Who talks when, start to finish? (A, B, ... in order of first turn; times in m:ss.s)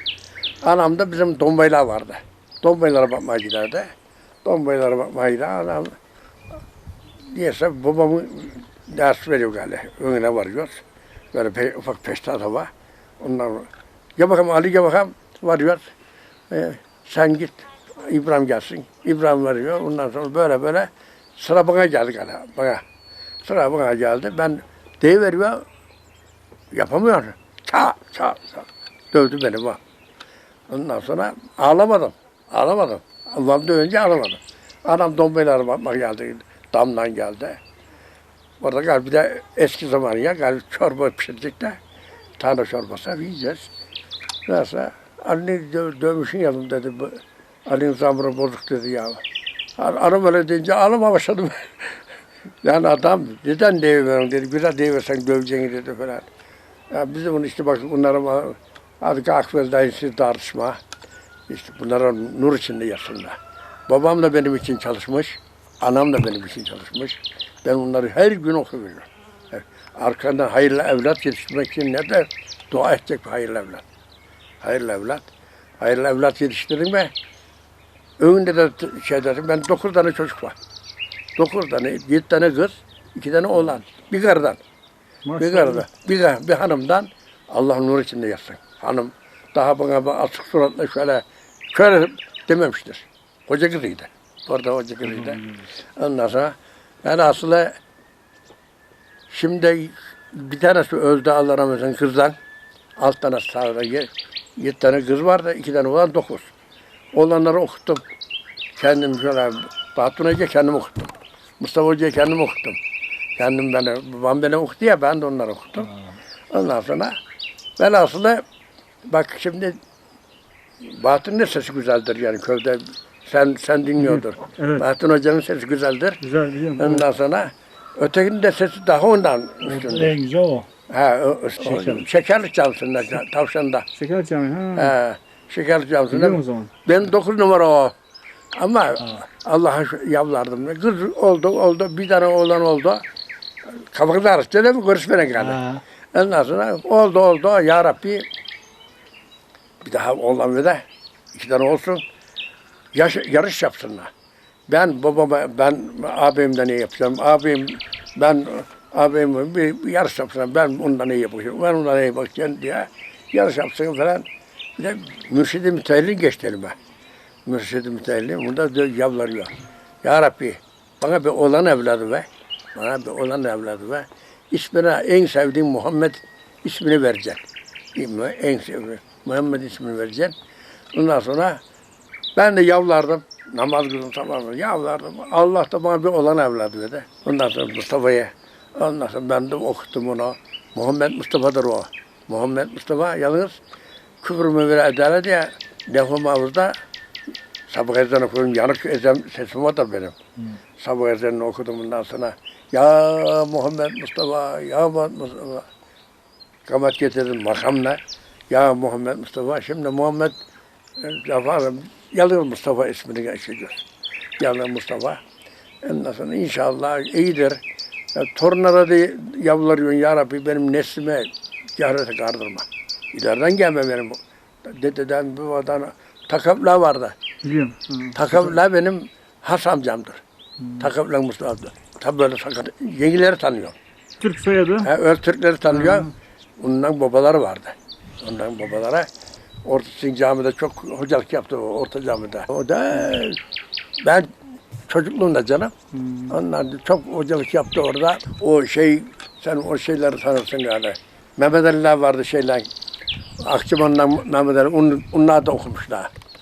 0:00.6-0:03.9 A
0:04.4-0:05.9 A
0:07.3-0:15.9 A
0:16.5-0:22.8 A
0:23.4-0:25.6 A
0:26.7-0:29.8 A
0:30.7-0:37.6 A
0:38.6-0:41.8 A
0:42.4-0:43.7 A
0:44.4-0:49.2 A
0:49.8-0:52.0 A
0:52.6-0:56.2 A
0:56.9-1:00.8 A
1:01.5-1:03.4 A
1:03.9-1:13.8 A
1:14.6-1:15.3 A
1:15.8-1:17.1 A
1:18.2-1:20.6 A
1:21.4-1:24.6 A
1:25.2-1:25.8 B
1:25.4-1:35.4 A
1:35.0-1:35.7 C
1:36.0-1:37.8 A
1:39.3-1:42.4 A
1:43.0-1:46.5 A
1:47.1-1:48.0 A
1:48.8-1:52.8 A
1:53.4-1:55.9 A
1:56.5-1:57.2 A
1:57.8-1:58.4 A
1:59.1-1:59.8 A
2:00.8-2:06.2 A
2:04.2-2:04.8 B
2:06.2-2:07.0 B
2:06.8-2:10.1 A
2:09.6-2:10.7 C
2:10.9-2:13.8 A
2:11.6-2:12.0 C
2:14.0-2:14.9 B
2:14.8-2:17.9 A
2:16.1-2:16.7 B
2:18.6-2:23.0 A
2:23.7-2:28.2 A
2:25.4-2:25.8 C
2:29.8-2:32.0 A
2:32.9-2:34.1 A
2:34.7-2:44.2 A
2:44.8-2:46.8 A
2:47.4-2:57.4 A
2:57.9-3:00.4 A
3:00.9-3:01.6 A
3:02.4-3:13.6 A
3:14.2-3:16.7 A
3:17.7-3:20.2 A
3:20.8-3:25.7 A
3:26.6-3:30.4 A
3:31.0-3:33.8 A
3:34.4-3:35.2 A
3:35.8-3:37.6 A
3:38.1-3:47.2 A
3:47.4-3:48.1 B
3:48.1-3:50.2 A
3:50.8-3:53.8 A
3:54.2-3:54.9 B
3:54.8-3:59.1 A
3:55.7-3:56.1 B
3:59.6-4:03.4 A
4:04.0-4:04.3 A
4:04.9-4:05.7 A
4:05.9-4:06.3 B
4:06.3-4:12.7 A
4:13.4-4:16.1 A